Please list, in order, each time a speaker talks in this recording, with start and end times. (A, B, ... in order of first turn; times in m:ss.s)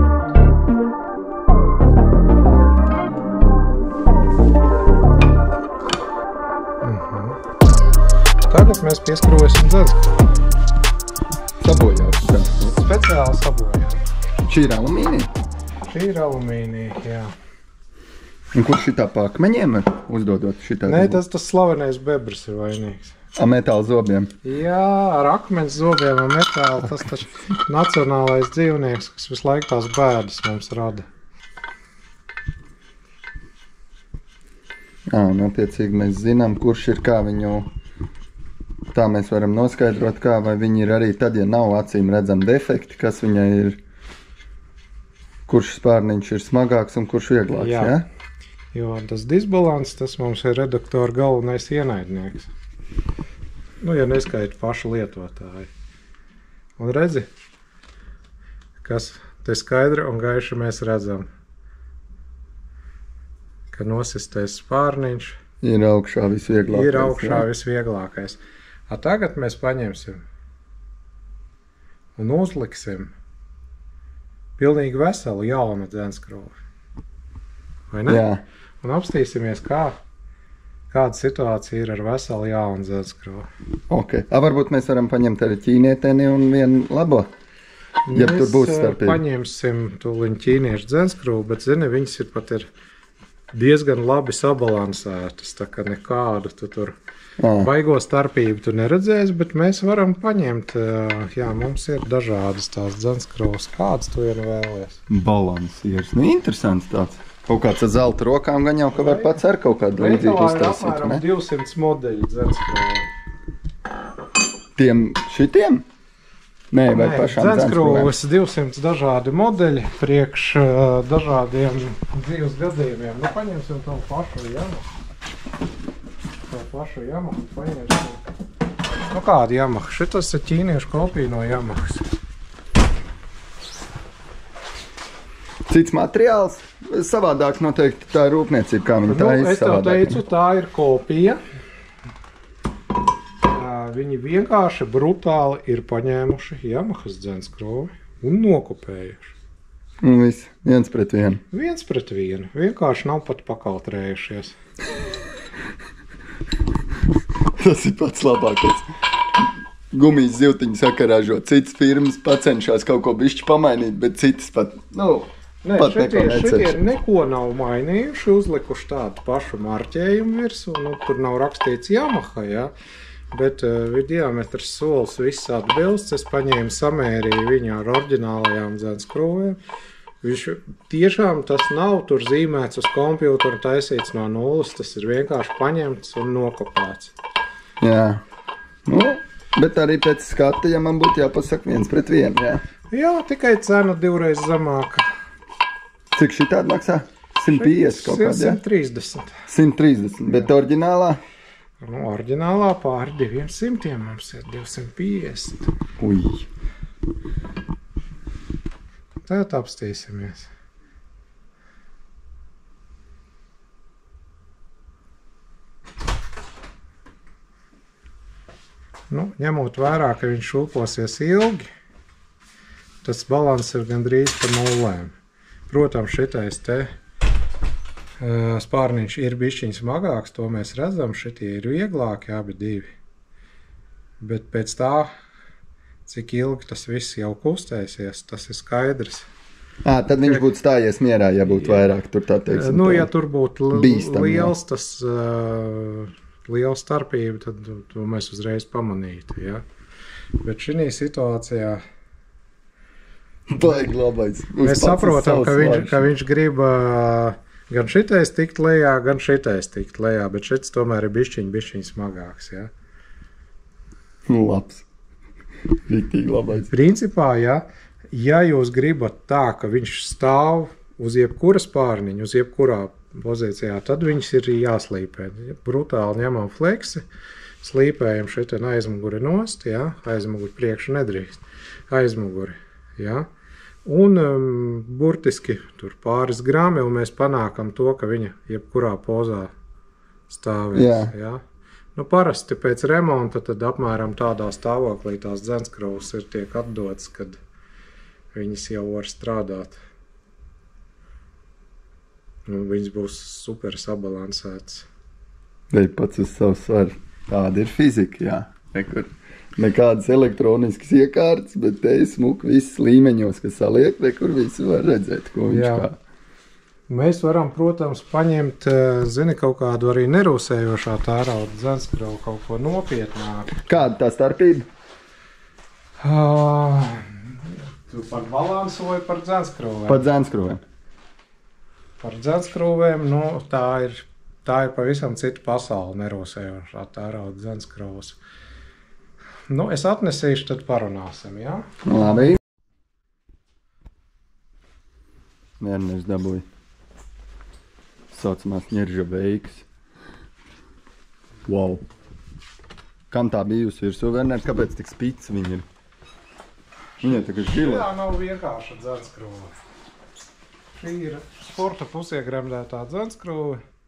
0:06.8-0:07.4 A
0:08.5-0:10.4 A
0:11.6-0:12.8 B
0:12.7-0:14.0 A
0:14.4-0:15.3 B
0:15.9-0:17.3 A
0:18.5-0:21.2 B
0:20.9-0:23.2 A
0:23.4-0:24.3 B
0:24.4-0:31.1 A
0:35.1-0:37.7 B
0:38.9-0:43.8 B
0:45.5-0:48.0 B
0:47.6-0:48.0 A
0:48.7-0:52.5 A
0:53.8-0:55.7 A
0:56.8-0:57.3 A
0:58.8-1:01.3 A
1:03.7-1:05.4 A
1:05.6-1:07.4 B
1:06.7-1:10.2 A
1:12.2-1:13.1 A
1:14.6-1:16.6 A
1:17.9-1:18.2 A
1:18.1-1:18.4 B
1:18.8-1:20.0 A
1:20.9-1:23.5 A
1:23.9-1:27.3 B
1:28.1-1:32.7 A
1:28.1-1:29.2 B
1:33.5-1:37.0 A
1:37.4-1:37.7 B
1:37.5-1:45.0 A
1:45.1-1:51.2 B
1:49.0-1:49.4 A
1:49.9-1:53.1 A
1:54.8-1:55.8 B
1:56.7-1:58.1 B
1:56.9-2:04.9 A
2:06.4-2:08.2 A
2:09.1-2:12.1 A
2:15.7-2:20.2 B
2:19.1-2:21.4 A
2:23.4-2:29.3 A
2:30.0-2:31.4 B
2:31.5-2:34.6 A
2:37.5-2:46.8 B
2:45.6-2:52.7 A
2:53.3-2:59.6 A
3:00.2-3:07.1 A
3:07.8-3:08.2 B
3:08.8-3:12.6 B
3:12.9-3:15.2 A
3:16.1-3:18.6 B
3:17.5-3:19.5 A
3:19.5-3:21.2 B
3:21.8-3:25.7 A
3:26.0-3:26.5 B
3:29.2-3:30.5 A
3:39.1-3:41.7 A
3:43.0-3:45.2 A
3:45.7-3:46.9 A
3:48.2-3:52.9 A
3:54.2-3:55.1 A
3:56.1-3:59.3 A
3:59.8-4:03.1 B
4:00.2-4:00.5 A
4:01.5-4:01.8 A
4:02.5-4:09.6 A
4:03.7-4:04.5 B
4:10.4-4:11.8 A
4:13.5-4:16.1 B
4:13.6-4:13.9 A
4:14.6-4:22.7 A
4:24.3-4:24.9 B
4:25.9-4:26.7 B
4:26.7-4:37.0 A
4:37.6-4:43.3 A
4:43.8-4:49.5 A
4:50.3-4:51.4 A
4:50.7-4:51.1 B
4:51.9-4:57.4 A
4:58.3-4:59.8 A
5:02.5-5:04.9 A
5:05.7-5:16.0 B
5:15.5-5:15.9 A
5:16.9-5:23.7 A
5:23.6-5:24.7 B
5:26.0-5:30.1 A
5:29.9-5:30.6 B
5:32.0-5:38.2 A
5:39.5-5:42.4 A
5:41.8-5:42.4 B
5:45.6-5:46.4 B
5:48.1-5:49.7 B
5:51.4-5:51.8 B
5:53.1-5:55.7 B
5:57.0-5:59.6 A
5:57.0-5:57.9 B
6:00.8-6:03.6 A